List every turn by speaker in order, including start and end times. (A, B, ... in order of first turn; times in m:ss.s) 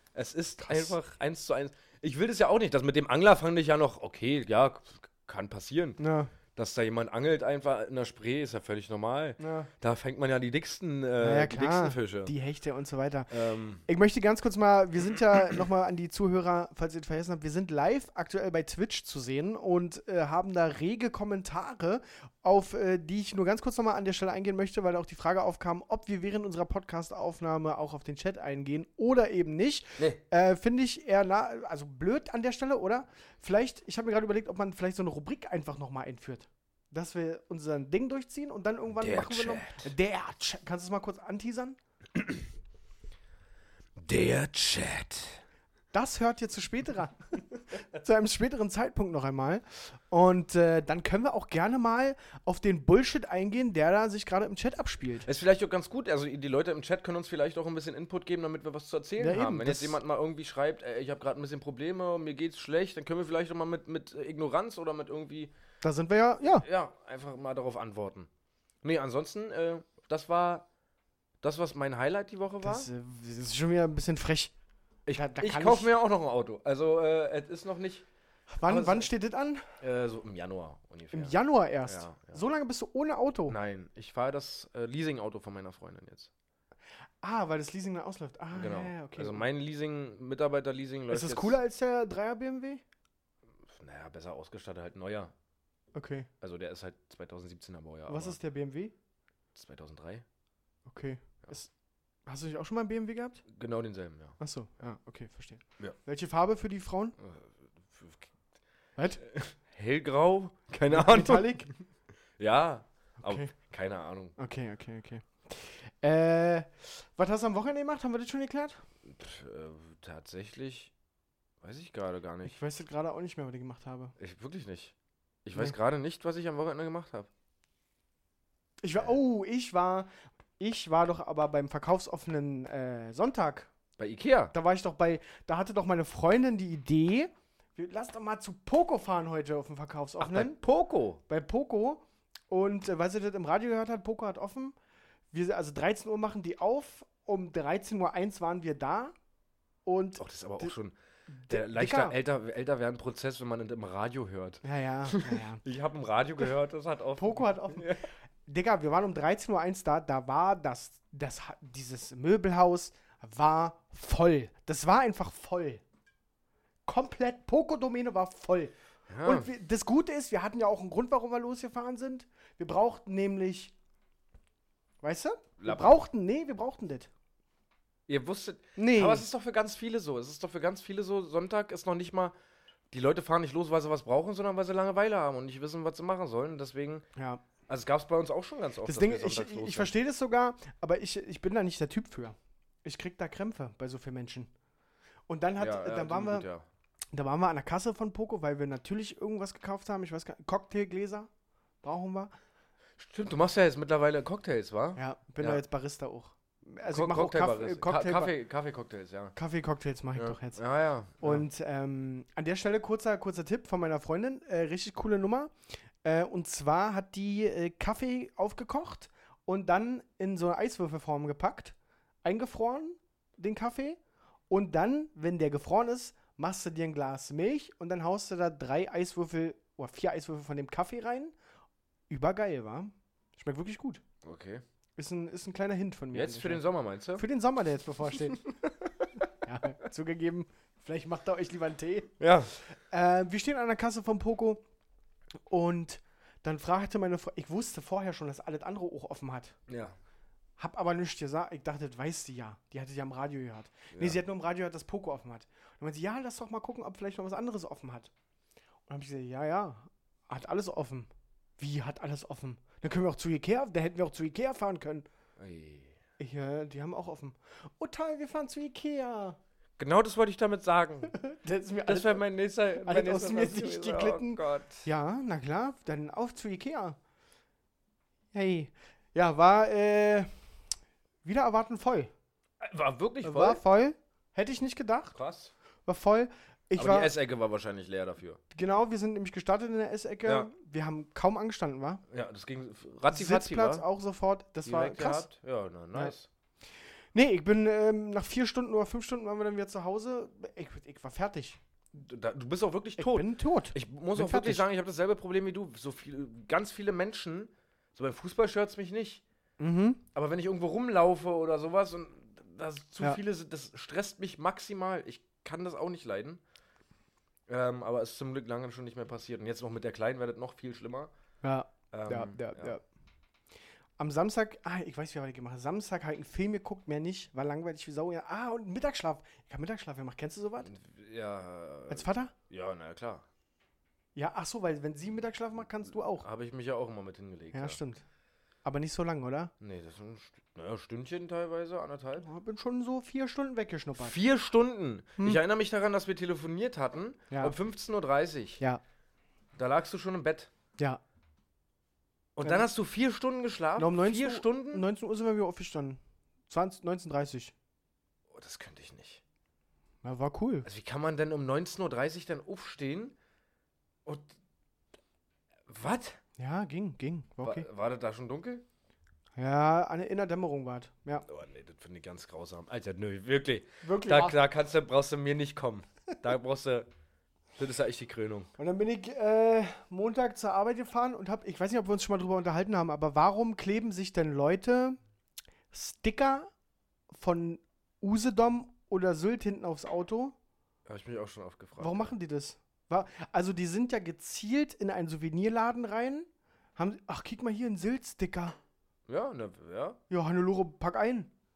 0:00.1-0:06.0 A
0:00.6-0:00.9 B
0:06.0-0:06.3 B
0:06.6-0:12.3 A
0:09.4-0:09.7 B
0:11.2-0:13.3 B
0:13.3-0:13.8 A
0:13.9-0:41.8 B
0:39.0-0:39.9 A
0:44.0-0:45.4 A
0:45.9-0:47.2 B
0:47.9-0:55.3 B
0:55.2-1:05.5 A
0:59.2-1:00.0 B
1:05.8-1:06.6 B
1:06.4-1:08.3 A
1:08.8-1:10.6 A
1:11.4-1:12.9 A
1:12.6-1:14.5 B
1:15.1-1:18.0 A
1:15.1-1:15.9 B
1:18.5-1:19.6 B
1:18.6-1:19.1 A
1:19.8-1:21.4 A
1:21.1-1:23.6 B
1:21.9-1:22.4 A
1:23.5-1:26.3 A
1:27.2-1:29.4 B
1:28.5-1:31.6 A
1:31.1-1:32.8 B
1:33.7-1:35.3 A
1:36.0-1:36.3 B
1:36.4-1:38.4 A
1:38.1-1:38.9 B
1:39.6-1:40.2 A
1:40.9-1:41.7 B
1:42.2-1:43.4 B
1:43.5-1:44.4 A
1:44.4-1:47.2 B
1:47.2-1:48.3 A
1:49.0-1:49.2 B
1:49.2-1:51.6 A
1:50.9-1:51.7 B
1:52.4-1:54.3 A
1:53.2-1:53.5 B
1:54.4-1:58.8 B
1:59.0-2:00.9 A
2:01.6-2:02.6 A
2:02.4-2:04.1 B
2:04.2-2:04.9 A
2:05.4-2:07.3 A
2:08.8-2:13.7 B
2:14.0-2:14.5 A
2:14.5-2:20.6 B
2:20.2-2:21.2 A
2:21.3-2:24.8 B
2:25.3-2:29.1 B
2:29.8-2:30.7 B
2:30.2-2:30.9 A
2:31.3-2:32.2 B
2:31.5-2:38.0 A
2:34.6-2:35.6 B
2:37.2-2:45.8 B
2:46.9-2:53.7 B
2:49.1-2:49.5 A
2:55.0-2:57.1 B
2:55.6-2:56.0 A
2:58.1-3:02.3 A
2:58.8-2:59.3 B
3:02.9-3:07.0 A
3:07.2-3:07.4 B
3:07.7-3:09.9 A
3:08.8-3:14.5 B
3:15.3-3:16.5 B
3:15.6-3:16.6 A
3:17.1-3:21.3 B
3:21.8-3:22.3 B
3:23.0-3:25.6 A
3:25.0-3:28.3 B
3:26.9-3:29.4 A
3:29.4-3:30.6 B
3:30.2-3:31.4 A
3:31.2-3:44.0 B
3:44.5-3:51.4 B
3:52.1-3:54.0 B
3:54.2-3:54.6 A
3:55.0-3:56.6 B
3:56.1-3:57.2 A
3:57.2-3:58.4 B
3:59.4-4:02.1 B
4:02.2-4:02.5 A
4:02.6-4:04.6 B
4:05.5-4:09.6 B
4:09.7-4:09.9 A
4:10.6-4:18.1 B
4:13.9-4:14.2 A
4:18.9-4:25.1 B
4:25.4-4:25.9 A
4:26.2-4:29.4 B
4:29.8-4:31.2 A
4:31.1-4:32.2 B
4:31.9-4:34.9 A
4:32.8-4:37.0 B
4:38.3-4:40.3 B
4:41.2-4:42.1 B
4:42.6-4:43.6 A
4:43.2-4:45.2 B
4:45.1-4:45.5 A
4:45.9-4:47.1 B
4:46.8-4:48.4 A
4:48.5-4:52.0 B
4:52.1-4:53.8 A
4:53.1-4:55.3 B
4:54.6-4:56.3 A
4:57.1-5:01.6 B
5:01.9-5:09.2 A
5:03.0-5:04.6 B
5:09.6-5:10.0 B
5:10.1-5:16.4 A
5:17.5-5:21.1 A
5:21.4-5:22.8 B
5:21.9-5:22.8 A
5:24.0-5:30.7 B
5:30.6-5:33.2 A
5:31.9-5:32.3 B
5:34.1-5:36.3 B
5:36.2-5:37.8 A
5:37.5-5:38.0 B
5:38.6-5:39.5 B
5:39.6-5:42.3 A
5:42.2-5:44.2 B
5:44.0-5:48.6 A
5:47.3-5:47.6 B
5:49.6-5:50.5 A
5:52.4-5:54.8 A
5:53.8-5:57.5 B
5:58.3-5:59.2 A
6:00.0-6:00.7 B
6:00.6-6:03.1 A
6:05.7-6:06.2 A
6:06.4-6:07.6 B
6:07.4-6:08.6 A
6:09.4-6:11.3 B
6:11.3-6:16.9 A
6:13.8-6:14.4 B
6:17.6-6:18.5 A
6:18.6-6:25.0 B
6:25.7-6:26.5 B
6:27.1-6:30.4 B
6:30.9-6:32.1 A
6:31.8-6:38.6 B
6:39.1-6:40.0 A
6:40.1-6:41.3 B